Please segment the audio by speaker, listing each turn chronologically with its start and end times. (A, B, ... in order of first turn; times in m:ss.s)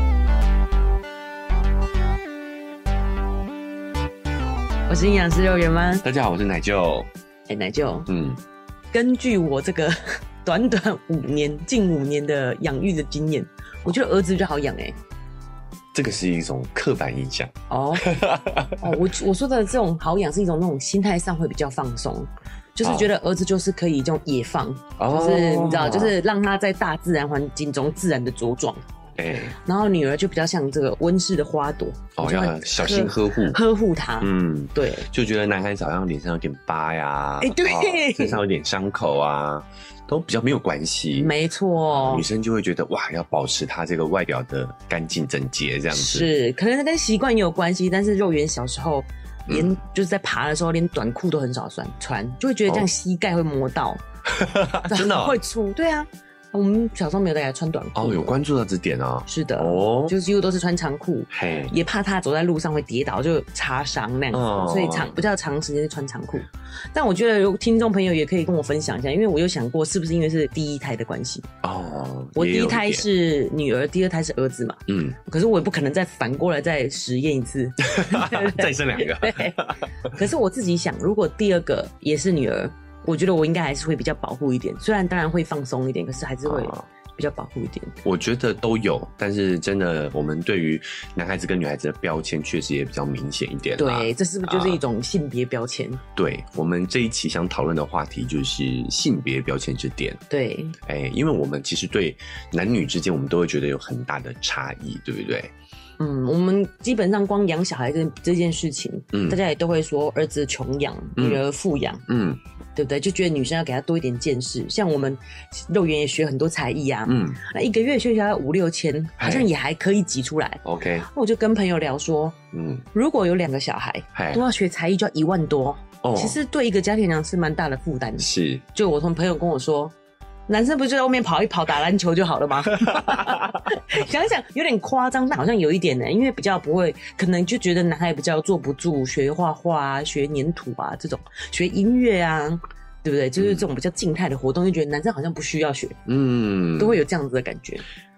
0:04.9-0:06.0 A
0:06.0-0:07.1 B
0:07.5-0:08.1 A
0:08.1-0:08.4 B
0:08.9-0:15.0 A
0:15.9-0:19.0 B
0:17.7-0:18.1 A
0:18.8-0:28.8 A
0:22.8-0:23.1 B
0:25.0-0:26.2 B
0:29.2-0:29.5 B
0:29.6-0:35.1 A
0:32.2-0:33.6 B
0:34.2-0:41.3 B
0:37.4-0:38.4 A
0:41.1-0:42.3 A
0:41.9-0:46.3 B
0:45.9-0:54.0 A
0:49.5-0:49.8 B
0:54.3-0:55.4 B
0:54.9-0:58.3 A
0:57.9-1:00.1 B
0:59.3-1:11.5 A
1:01.3-1:01.7 B
1:04.3-1:05.2 B
1:11.6-1:13.1 B
1:12.3-1:28.0 A
1:14.9-1:15.2 B
1:17.8-1:20.1 B
1:26.4-1:26.8 B
1:28.0-1:34.8 B
1:33.8-1:36.0 A
1:36.1-1:40.2 B
1:40.3-1:40.8 A
1:40.8-1:45.5 B
1:46.0-1:52.0 A
1:49.1-1:49.4 B
1:51.2-1:51.4 B
1:52.1-1:52.4 B
1:52.8-2:02.4 A
1:57.1-1:57.4 B
1:59.2-1:59.5 B
2:00.6-2:01.1 B
2:02.5-2:02.8 B
2:02.9-2:09.9 A
2:04.1-2:04.4 B
2:06.0-2:06.4 B
2:08.2-2:08.6 B
2:10.5-2:26.0 A
2:12.7-2:13.6 B
2:23.4-2:23.7 B
2:26.1-2:27.0 B
2:26.8-2:27.8 A